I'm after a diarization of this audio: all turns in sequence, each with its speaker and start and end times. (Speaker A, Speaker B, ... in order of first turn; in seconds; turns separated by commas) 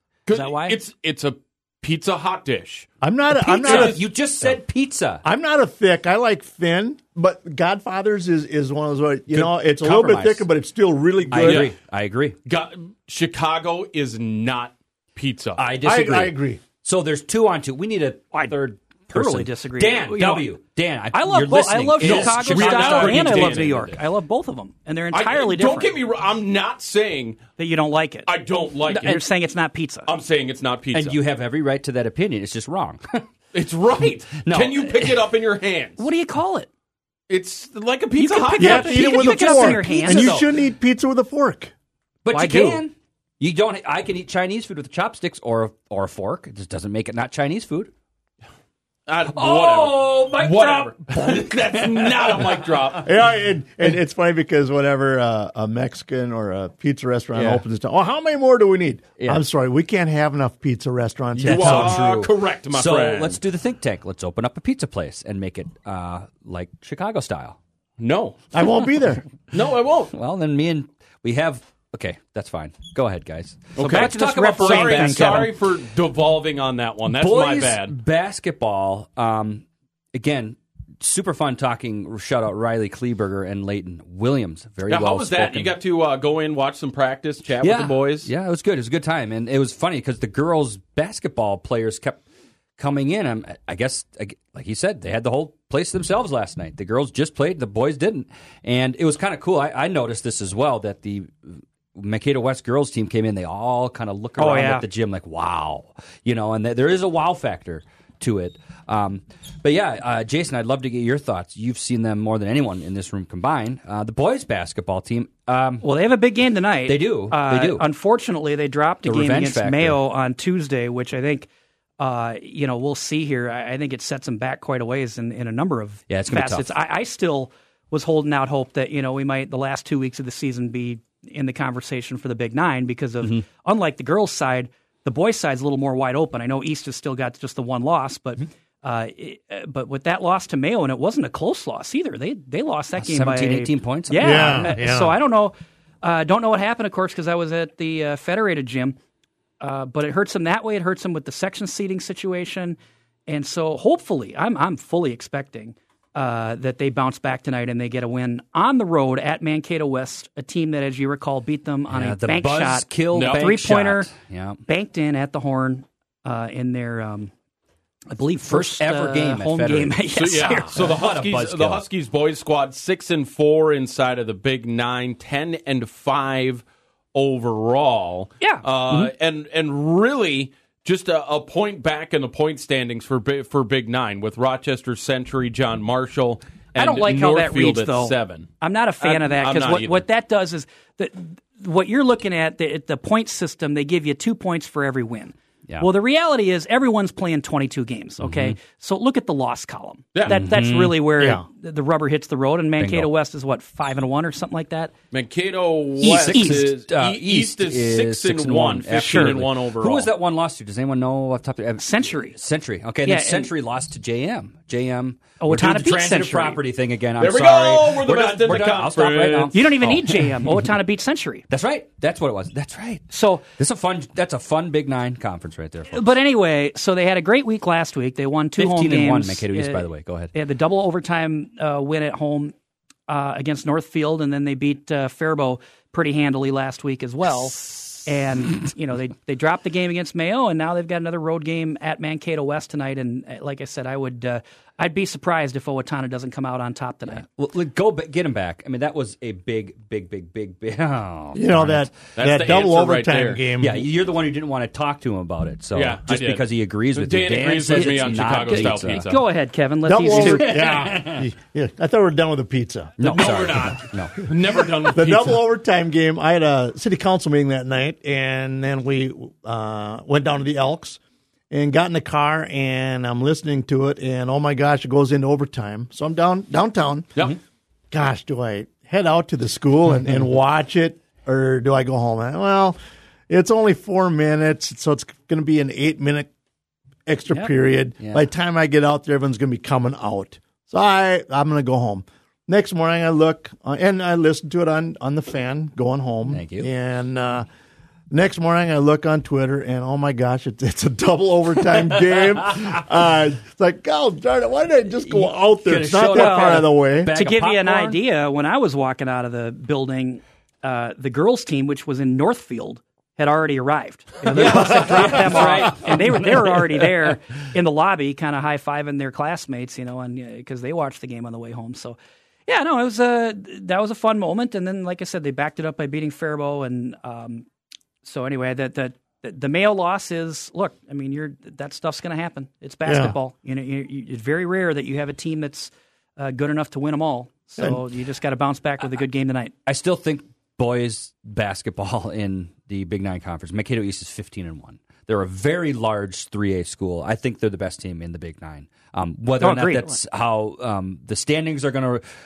Speaker A: 0.3-2.9, Speaker B: 0.3-0.8, Speaker C: 3.0-4.5, Speaker D: 3.4-5.2, Speaker A: 3.6-4.0, Speaker C: 5.2-11.7, Speaker D: 9.3-10.5, Speaker D: 11.3-12.4, Speaker A: 11.3-11.7, Speaker A: 12.4-15.6, Speaker D: 15.6-23.9, Speaker C: 15.8-16.6, Speaker B: 18.3-20.5, Speaker B: 21.1-25.9, Speaker A: 22.0-24.0, Speaker A: 25.1-27.4, Speaker B: 27.6-28.3, Speaker A: 28.3-29.2, Speaker B: 28.9-30.1, Speaker A: 30.1-31.2, Speaker D: 30.9-33.3, Speaker A: 33.5-36.0, Speaker D: 34.4-35.2, Speaker B: 36.0-36.7, Speaker A: 37.3-39.6, Speaker B: 38.2-40.4, Speaker C: 38.6-41.7, Speaker D: 39.4-40.4, Speaker D: 42.2-47.9, Speaker B: 42.3-42.8, Speaker A: 49.1-53.1, Speaker D: 49.3-53.0, Speaker C: 53.0-62.1, Speaker D: 57.4-57.6, Speaker A: 61.4-63.4, Speaker D: 61.4-67.6, Speaker A: 68.0-68.4, Speaker C: 68.5-69.2, Speaker A: 69.5-70.1, Speaker D: 70.1-75.5, Speaker A: 73.8-78.0, Speaker B: 73.8-75.5, Speaker D: 77.1-85.8, Speaker A: 84.9-88.3, Speaker D: 87.6-92.2, Speaker D: 92.8-115.9, Speaker B: 104.4-104.9, Speaker B: 115.8-149.0, Speaker D: 116.9-117.9, Speaker D: 119.0-120.0, Speaker D: 126.1-126.7, Speaker D: 143.0-144.8, Speaker C: 144.2-145.2, Speaker B: 149.6-164.1, Speaker D: 161.9-164.6, Speaker A: 163.1-163.4, Speaker B: 164.7-167.3, Speaker B: 168.1-170.8, Speaker D: 168.4-171.8, Speaker A: 170.2-176.6, Speaker A: 177.1-190.1, Speaker B: 178.4-179.1, Speaker B: 186.8-204.9, Speaker D: 198.2-198.6, Speaker A: 200.2-200.5, Speaker D: 200.3-201.3, Speaker D: 202.8-203.1, Speaker A: 205.1-210.1, Speaker D: 206.0-220.7, Speaker B: 206.0-206.7, Speaker B: 209.0-209.4, Speaker B: 211.8-212.4, Speaker B: 213.0-213.5, Speaker B: 215.4-216.6, Speaker A: 217.2-219.5, Speaker B: 219.5-221.5, Speaker D: 221.5-226.0, Speaker B: 223.1-223.4, Speaker B: 225.9-232.5, Speaker D: 228.6-230.3, Speaker B: 233.1-247.3, Speaker D: 247.1-251.9, Speaker C: 251.3-253.9, Speaker A: 252.2-253.4, Speaker D: 253.6-259.1, Speaker A: 255.7-259.2, Speaker B: 257.8-260.6, Speaker C: 259.9-263.6, Speaker D: 260.0-261.2, Speaker D: 263.0-264.3, Speaker A: 263.0-265.4, Speaker C: 264.9-271.0, Speaker C: 271.5-277.2, Speaker C: 277.9-282.8, Speaker C: 283.3-286.3, Speaker C: 287.1-297.5, Speaker D: 288.0-288.3, Speaker D: 296.3-296.7, Speaker C: 298.1-307.2, Speaker D: 302.1-302.7, Speaker D: 305.0-308.0, Speaker B: 306.1-327.5, Speaker D: 314.2-316.6, Speaker C: 314.5-314.8, Speaker B: 328.0-339.5, Speaker C: 332.9-333.2, Speaker D: 339.7-352.0, Speaker B: 349.4-350.0